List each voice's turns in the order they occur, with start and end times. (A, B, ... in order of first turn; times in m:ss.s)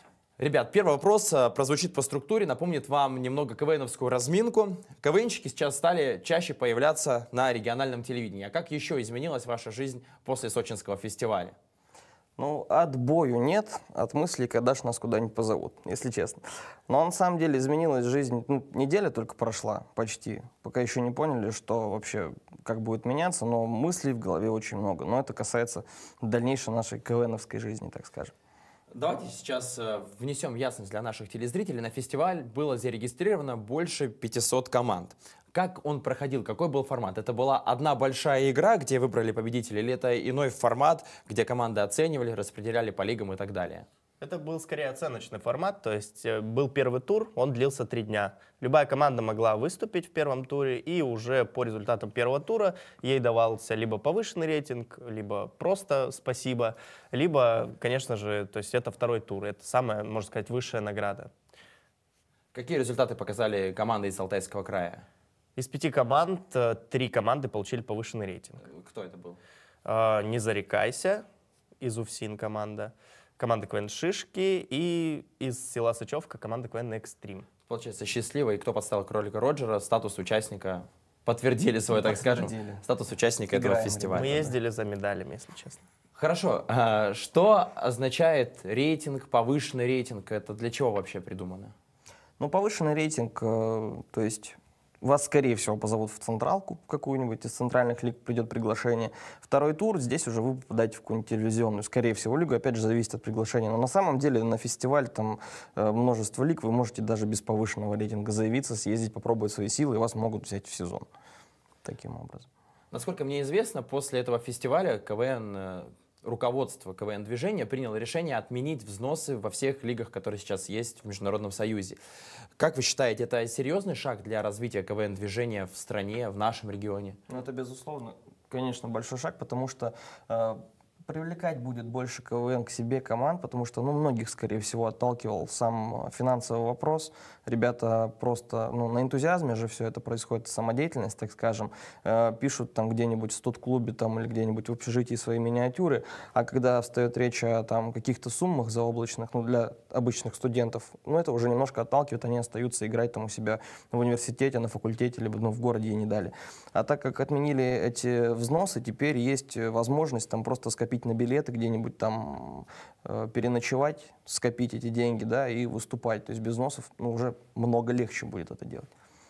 0:00.4-0:11.5 A
0:12.4-0:28.3 B
0:28.9-0:43.8 A
0:44.2-1:01.3 C
1:02.5-1:05.0 A
1:05.6-1:08.6 C
1:08.6-1:09.4 A
1:09.8-1:11.2 C
1:11.8-1:17.5 C
1:17.7-1:24.4 A
1:21.9-1:22.8 B
1:23.5-1:24.5 B
1:24.1-1:25.8 C
1:26.2-1:31.7 A
1:32.4-1:51.1 B
1:51.8-1:52.5 B
1:52.9-2:02.0 A
2:02.6-2:07.2 A
2:07.3-2:48.9 B